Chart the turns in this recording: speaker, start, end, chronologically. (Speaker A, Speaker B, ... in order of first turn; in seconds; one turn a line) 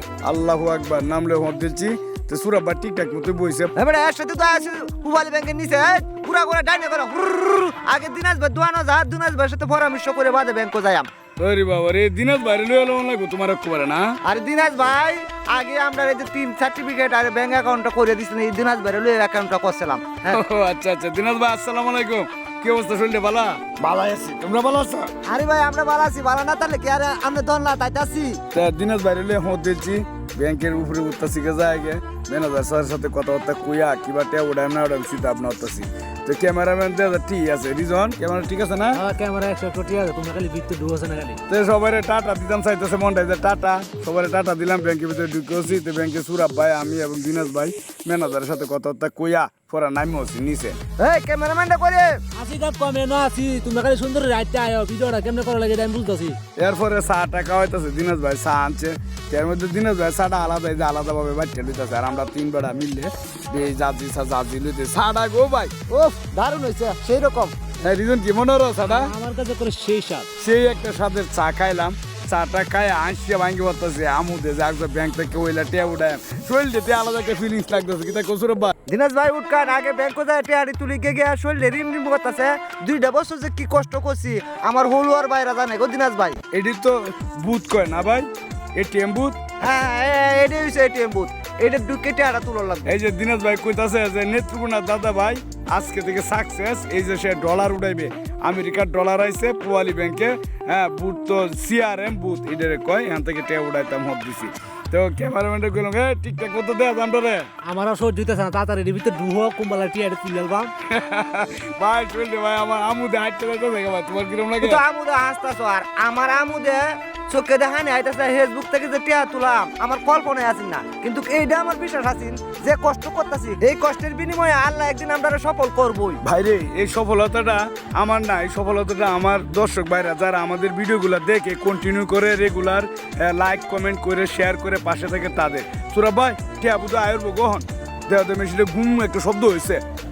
Speaker A: 0.2-3.7
Speaker B: 3.8-11.1
Speaker A: 11.4-14.1
Speaker B: 14.2-20.4
Speaker A: 20.3-25.1
Speaker B: 25.3-28.4
Speaker A: 28.5-39.0
Speaker C: 38.9-41.4
Speaker A: 41.5-50.8
Speaker B: 51.0-52.2
Speaker C: 52.4-56.4
Speaker A: 56.6-65.7
Speaker B: 65.9-67.6
Speaker A: 67.8-69.1
Speaker C: 68.8-70.3
Speaker A: 70.4-78.7
Speaker B: 78.9-86.4
Speaker A: 86.5-89.4
Speaker B: 89.6-92.9
Speaker A: 92.9-107.5
Speaker C: 107.6-110.7
Speaker A: 110.9-114.8
Speaker B: 114.6-126.2
Speaker A: 126.2-139.8